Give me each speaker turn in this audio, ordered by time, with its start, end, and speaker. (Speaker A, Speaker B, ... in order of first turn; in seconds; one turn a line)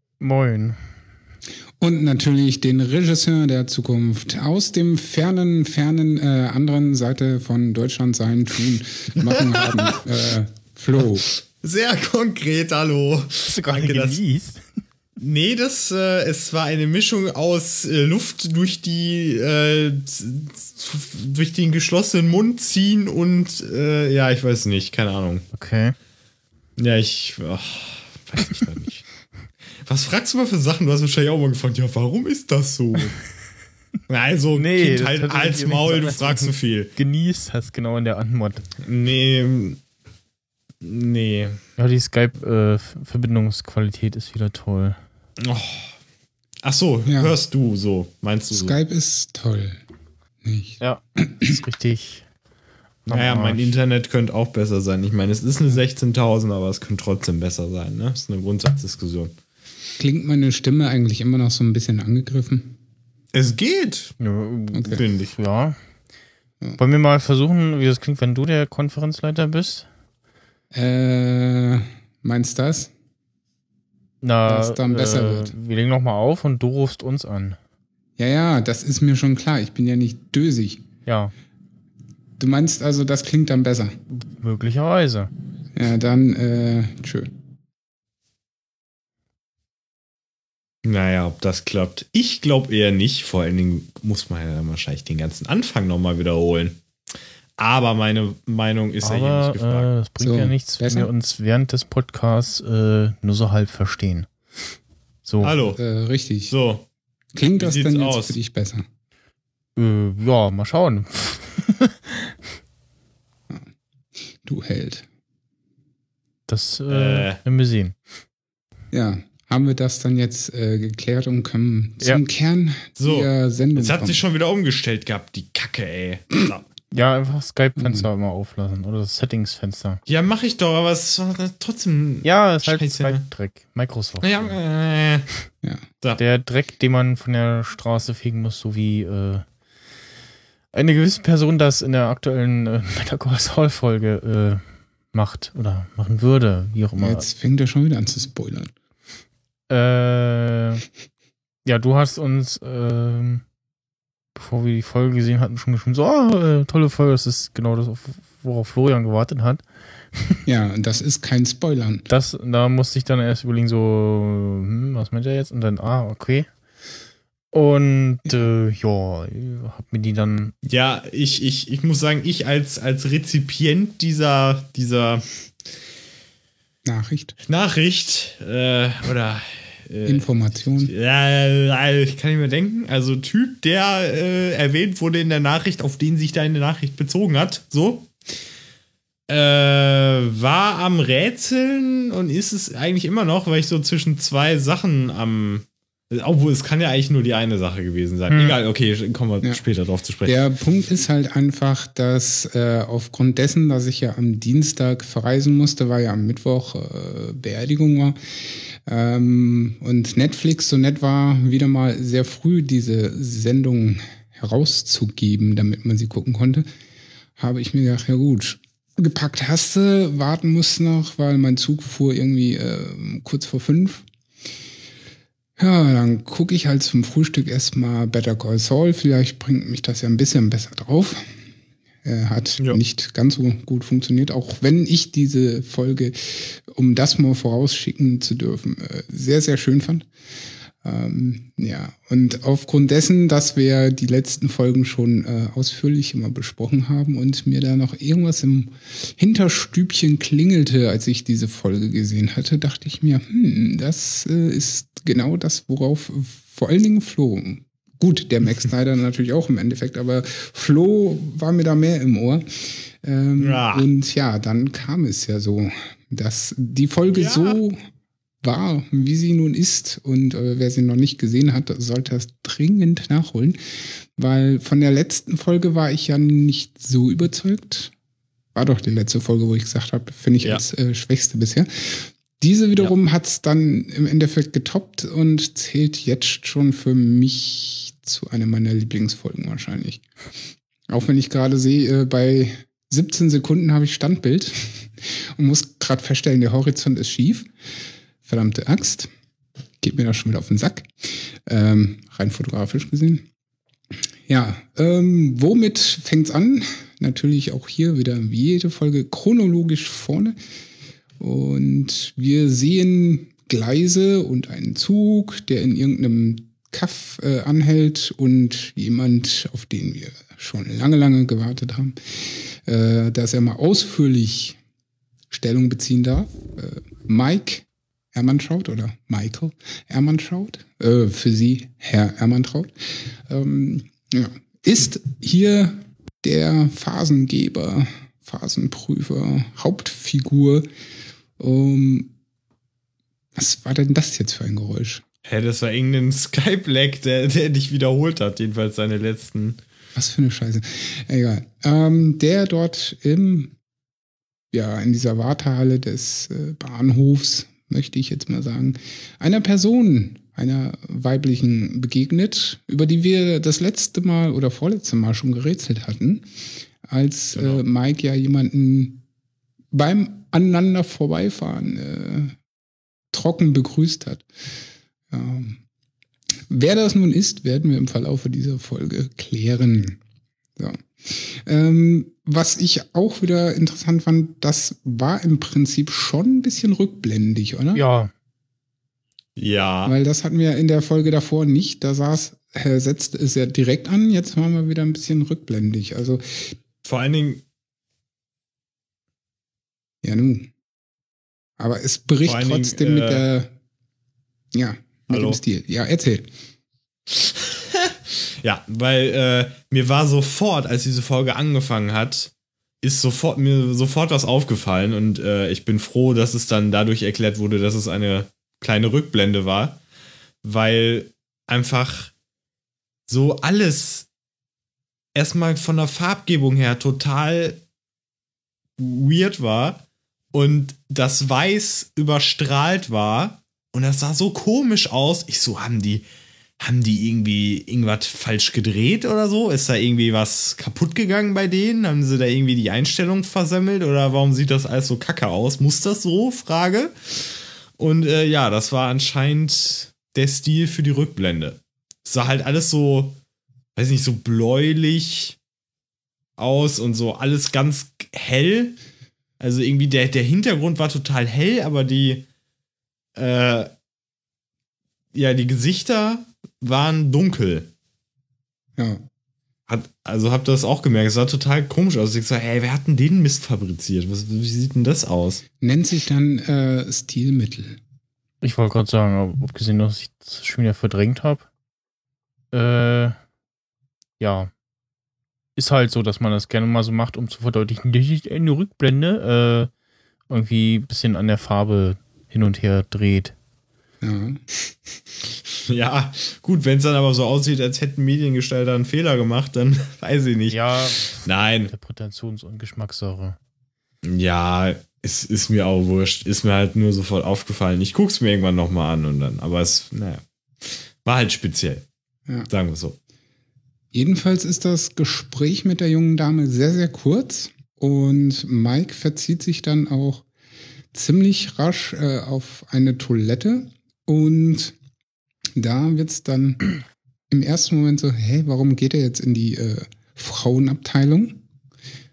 Speaker A: 0.2-0.8
Speaker B: 1.8-11.3
Speaker C: 9.2-10.0
Speaker C: 11.3-14.2
Speaker A: 13.5-14.6
Speaker C: 15.2-25.4
Speaker A: 25.5-25.9
Speaker C: 26.8-29.1
Speaker C: 29.9-33.2
Speaker C: 34.1-36.9
Speaker A: 34.5-38.6
Speaker C: 38.8-39.8
Speaker C: 40.8-41.6
Speaker A: 41.8-45.0
Speaker C: 45.4-46.0
Speaker C: 46.6-48.8
Speaker B: 47.1-47.3
Speaker B: 48.5-49.8
Speaker B: 50.4-51.5
Speaker A: 50.8-52.2
Speaker C: 53.1-59.4
Speaker A: 53.1-53.8
Speaker B: 60.0-62.8
Speaker C: 63.3-64.2
Speaker A: 64.2-65.8
Speaker C: 64.9-65.3
Speaker A: 66.8-69.9
Speaker B: 70.7-72.9
Speaker A: 74.2-77.6
Speaker B: 74.5-75.5
Speaker B: 78.2-80.8
Speaker A: 81.1-81.3
Speaker B: 82.4-84.0
Speaker A: 84.1-85.3
Speaker B: 85.7-87.3
Speaker C: 90.8-96.8
Speaker C: 97.6-99.9
Speaker A: 99.0-104.3
Speaker B: 100.2-101.1
Speaker A: 105.2-105.5
Speaker C: 105.4-105.8
Speaker B: 105.8-106.5
Speaker C: 106.5-106.9
Speaker B: 107.3-108.9
Speaker C: 107.6-108.4
Speaker A: 109.8-112.3
Speaker B: 114.4-115.1
Speaker A: 116.5-118.0
Speaker C: 116.9-117.4
Speaker B: 118.9-124.2
Speaker C: 123.0-126.7
Speaker A: 126.9-130.0
Speaker B: 127.8-128.1
Speaker C: 130.1-133.3
Speaker A: 132.2-134.6
Speaker C: 134.2-135.3
Speaker A: 136.2-139.4
Speaker A: 140.7-147.3
Speaker B: 147.0-148.7
Speaker A: 149.7-150.8
Speaker A: 151.7-153.4
Speaker A: 154.4-159.6
Speaker A: 160.2-160.4
Speaker B: 160.5-162.1
Speaker A: 162.1-166.5
Speaker A: 167.5-170.5
Speaker C: 170.7-175.2
Speaker B: 176.8-177.3
Speaker C: 177.5-188.1
Speaker B: 180.1-180.9
Speaker C: 189.3-200.5
Speaker A: 198.3-198.6
Speaker B: 200.2-216.7
Speaker B: 217.4-224.1
Speaker B: 225.6-231.3
Speaker B: 232.0-240.1
Speaker B: 240.8-267.8
Speaker C: 263.4-263.9
Speaker C: 267.1-267.6
Speaker B: 268.4-273.6
Speaker B: 274.2-277.9
Speaker B: 278.6-290.0
Speaker B: 290.9-297.5
Speaker B: 298.2-299.1
Speaker B: 299.8-303.3
Speaker B: 304.3-310.4
Speaker B: 311.2-324.6
Speaker B: 325.3-340.7
Speaker B: 341.4-342.1
Speaker B: 343.4-345.0
Speaker C: 345.2-349.6
Speaker B: 350.0-353.5
Speaker B: 354.5-366.3
Speaker B: 366.8-369.0
Speaker C: 367.3-367.6
Speaker B: 369.7-372.4
Speaker B: 373.1-374.3
Speaker B: 375.1-375.6
Speaker B: 376.5-380.0
Speaker B: 380.6-387.8
Speaker A: 387.8-388.1
Speaker C: 389.4-389.9
Speaker B: 389.9-396.6
Speaker C: 396.8-397.4
Speaker B: 400.0-400.5
Speaker B: 401.6-403.5
Speaker C: 402.2-403.2
Speaker B: 404.5-406.3
Speaker C: 405.1-405.4
Speaker C: 407.1-419.8
Speaker C: 420.4-422.1
Speaker C: 423.1-424.1
Speaker C: 425.1-427.6
Speaker C: 428.8-436.1
Speaker C: 436.6-446.9
Speaker C: 447.8-453.2
Speaker C: 453.8-455.4
Speaker C: 456.4-458.8
Speaker C: 459.4-462.3
Speaker C: 463.2-463.7
Speaker C: 465.1-467.7
Speaker B: 468.8-469.0
Speaker C: 469.7-475.4
Speaker B: 475.6-477.8
Speaker A: 478.4-481.5
Speaker A: 482.5-483.2
Speaker A: 484.2-484.5
Speaker A: 485.6-489.7
Speaker A: 490.3-493.3
Speaker B: 494.0-494.4
Speaker C: 495.7-501.7
Speaker A: 500.5-503.4
Speaker C: 504.0-511.9
Speaker C: 512.5-513.0
Speaker B: 513.9-520.3
Speaker B: 520.9-524.8
Speaker B: 525.6-526.7
Speaker B: 527.3-531.4